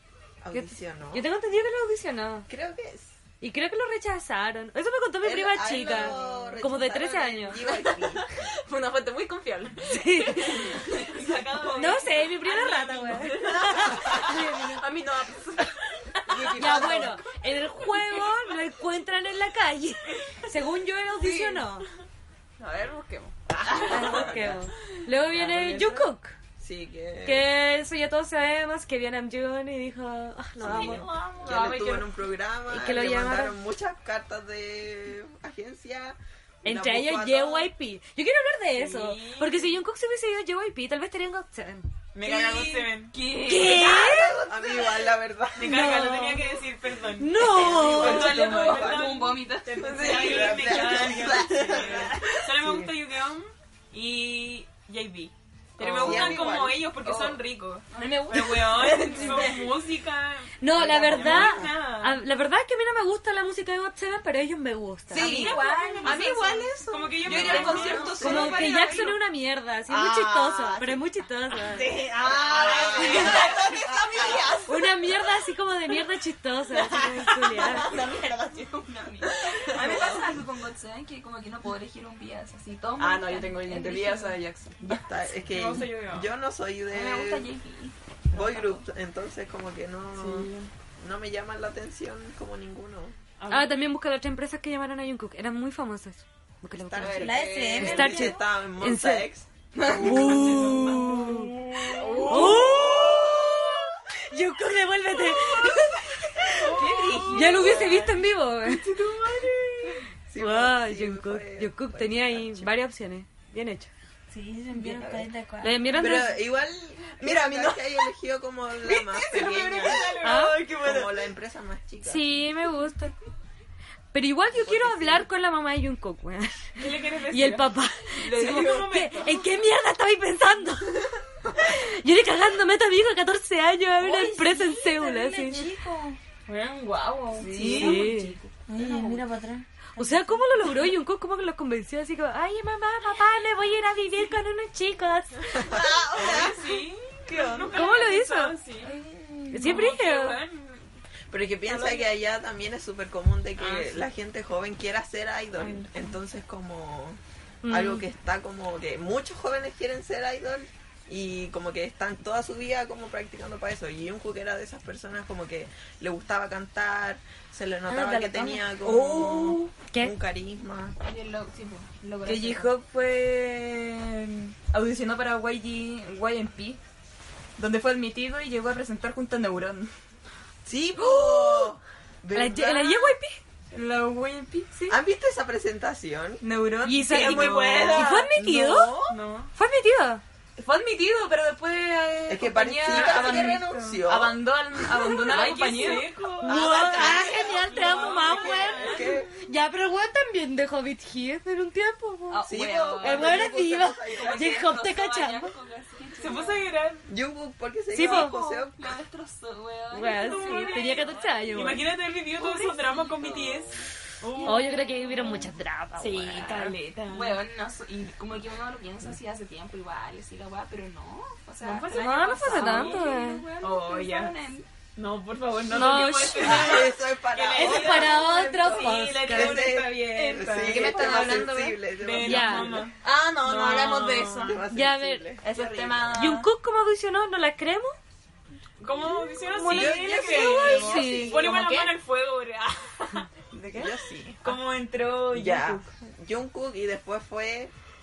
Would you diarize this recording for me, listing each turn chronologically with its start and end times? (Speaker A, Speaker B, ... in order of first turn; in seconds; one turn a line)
Speaker A: 0.4-1.3
Speaker B: 0.5-2.5
Speaker A: 2.5-3.2
Speaker B: 3.4-7.7
Speaker A: 5.2-8.2
Speaker C: 5.9-6.2
Speaker C: 7.5-11.2
Speaker B: 9.8-10.8
Speaker D: 11.0-13.1
Speaker E: 11.3-14.1
Speaker B: 11.7-14.8
Speaker C: 14.0-17.2
Speaker A: 16.3-17.2
Speaker B: 16.5-21.9
Speaker E: 20.2-20.5
Speaker C: 21.2-21.6
Speaker C: 22.6-24.6
Speaker A: 23.5-24.7
Speaker B: 23.8-26.4
Speaker A: 25.3-27.5
Speaker B: 27.2-31.3
Speaker A: 30.6-37.7
Speaker C: 30.7-32.1
Speaker B: 32.7-33.6
Speaker B: 36.6-41.9
Speaker E: 38.7-39.7
Speaker E: 42.1-43.1
Speaker D: 43.0-44.0
Speaker B: 43.4-44.5
Speaker A: 43.6-45.9
Speaker E: 45.6-60.5
Speaker B: 45.6-46.6
Speaker B: 47.2-48.9
Speaker A: 47.4-49.2
Speaker D: 48.0-51.5
Speaker C: 49.8-50.8
Speaker A: 49.8-52.9
Speaker A: 55.8-56.8
Speaker D: 56.0-56.5
Speaker D: 57.0-59.7
Speaker C: 58.0-58.4
Speaker B: 60.6-65.5
Speaker A: 60.8-61.6
Speaker E: 61.1-62.2
Speaker C: 65.1-69.1
Speaker D: 65.1-66.7
Speaker E: 65.2-69.1
Speaker D: 67.2-69.1
Speaker A: 67.2-68.3
Speaker B: 67.6-72.1
Speaker A: 69.9-71.0
Speaker A: 71.7-74.7
Speaker C: 71.7-74.9
Speaker D: 72.8-73.4
Speaker B: 73.0-73.5
Speaker B: 74.7-77.9
Speaker A: 76.7-78.8
Speaker D: 77.8-84.4
Speaker A: 79.7-80.3
Speaker C: 83.0-85.0
Speaker A: 84.8-87.5
Speaker E: 85.5-86.3
Speaker D: 86.9-88.8
Speaker A: 88.3-93.1
Speaker E: 90.1-90.7
Speaker E: 93.4-93.7
Speaker B: 93.5-99.3
Speaker A: 96.7-99.5
Speaker C: 97.0-98.0
Speaker D: 97.2-98.4
Speaker C: 99.7-100.7
Speaker B: 99.9-109.1
Speaker E: 100.0-102.8
Speaker C: 102.0-103.1
Speaker A: 102.7-103.4
Speaker E: 106.6-110.0
Speaker D: 106.8-107.9
Speaker C: 106.9-107.9
Speaker A: 110.3-112.8
Speaker B: 110.3-113.9
Speaker F: 114.3-116.1
Speaker B: 115.6-116.5
Speaker A: 115.9-122.4
Speaker C: 117.2-118.0
Speaker E: 119.0-121.0
Speaker C: 119.5-120.0
Speaker B: 120.2-120.7
Speaker B: 122.0-123.1
Speaker B: 124.1-135.7
Speaker A: 124.5-125.3
Speaker E: 126.8-129.5
Speaker D: 128.3-128.8
Speaker D: 134.0-136.2
Speaker E: 136.5-137.5
Speaker D: 137.3-139.2
Speaker C: 137.5-137.9
Speaker A: 137.5-137.9
Speaker B: 137.6-138.4
Speaker F: 138.7-139.6
Speaker B: 138.9-139.2
Speaker B: 139.9-145.8
Speaker A: 145.6-146.6
Speaker C: 146.0-146.4
Speaker E: 146.1-149.0
Speaker C: 147.3-147.6
Speaker B: 147.6-148.6
Speaker B: 149.5-150.4
Speaker E: 149.6-150.9
Speaker A: 151.3-170.9
Speaker E: 153.6-154.0
Speaker B: 157.6-158.0
Speaker B: 167.9-170.1
Speaker D: 171.0-172.7
Speaker C: 172.2-176.8
Speaker C: 177.6-179.9
Speaker A: 180.6-183.1
Speaker B: 181.2-181.7
Speaker B: 182.3-183.4
Speaker C: 183.7-185.0
Speaker A: 184.9-186.4
Speaker C: 186.4-188.5
Speaker B: 186.8-189.0
Speaker A: 187.1-189.0
Speaker E: 187.7-188.0
Speaker E: 189.1-189.5
Speaker B: 189.5-190.2
Speaker C: 190.6-197.5
Speaker A: 192.3-194.5
Speaker E: 192.9-193.9
Speaker E: 195.2-199.1
Speaker D: 195.3-196.1
Speaker B: 196.4-205.5
Speaker A: 196.5-199.3
Speaker D: 202.3-206.6
Speaker A: 202.4-204.7
Speaker E: 206.2-207.1
Speaker A: 207.1-208.9
Speaker B: 207.9-208.4
Speaker D: 207.9-211.3
Speaker B: 209.9-211.9
Speaker E: 210.1-215.4
Speaker D: 212.3-213.8
Speaker D: 214.3-215.2
Speaker B: 214.4-216.8
Speaker E: 216.0-217.4
Speaker D: 217.1-224.7
Speaker E: 221.6-223.0
Speaker B: 221.8-223.4
Speaker E: 223.6-224.4
Speaker E: 224.9-231.3
Speaker B: 225.6-226.9
Speaker D: 225.8-226.2
Speaker A: 226.3-232.9
Speaker B: 227.5-229.8
Speaker C: 230.5-231.8
Speaker E: 232.0-234.6
Speaker B: 232.2-232.9
Speaker C: 233.0-234.6
Speaker A: 234.4-236.3
Speaker B: 234.7-235.4
Speaker C: 235.4-236.5
Speaker B: 236.1-237.9
Speaker E: 238.8-243.3
Speaker B: 239.5-241.5
Speaker A: 239.7-241.3
Speaker C: 240.7-241.9
Speaker C: 243.5-244.0
Speaker A: 243.7-244.5
Speaker E: 244.4-245.9
Speaker A: 245.3-247.7